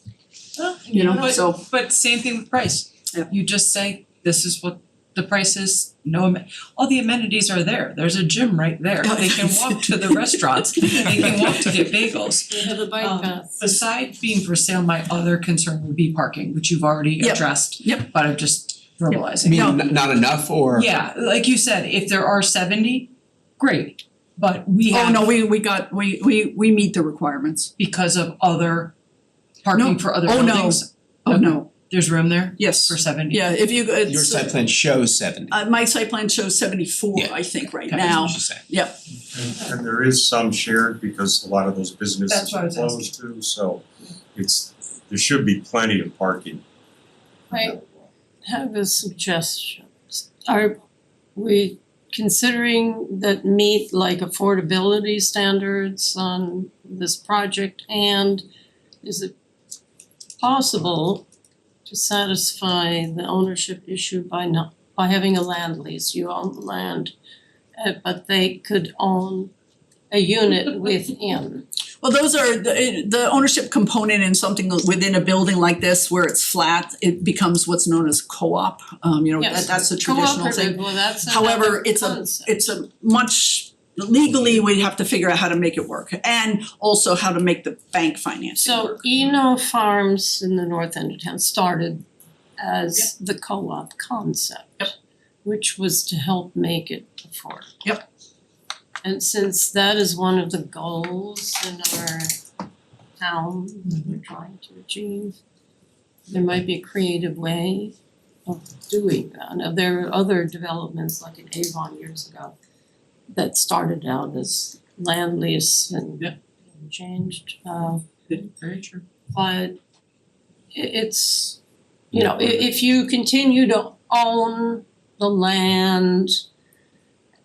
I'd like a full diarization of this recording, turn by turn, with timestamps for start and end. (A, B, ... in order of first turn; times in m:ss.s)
0:00.6-0:19.7 A
0:00.9-0:01.6 B
0:09.0-0:11.6 B
0:12.5-0:13.6 C
0:17.2-0:18.1 B
0:19.4-0:20.9 D
0:19.4-0:19.9 B
0:20.7-0:25.3 A
0:24.9-0:27.7 B
0:27.8-0:28.9 A
0:29.6-0:33.4 A
0:29.7-0:31.7 B
0:32.6-0:34.7 B
0:34.1-0:35.6 D
0:35.5-0:39.0 B
0:37.9-0:38.6 D
0:39.3-0:46.6 E
0:42.3-0:43.1 A
0:47.5-0:47.8 C
0:48.4-0:50.7 C
0:51.4-0:58.4 C
0:59.0-0:59.3 C
1:00.4-1:01.3 C
1:01.9-1:07.1 C
1:07.8-1:09.5 C
1:10.1-1:11.6 C
1:12.0-1:29.0 B
1:19.4-1:22.7 C
1:28.6-1:32.0 C
1:32.6-1:37.8 C
1:39.0-1:42.3 C
1:43.2-1:45.4 C
1:46.3-1:47.9 C
1:48.4-1:52.5 C
1:53.3-1:58.1 C
1:58.3-1:59.0 A
1:59.3-1:59.8 C
2:00.7-2:01.6 C
2:02.1-2:06.3 C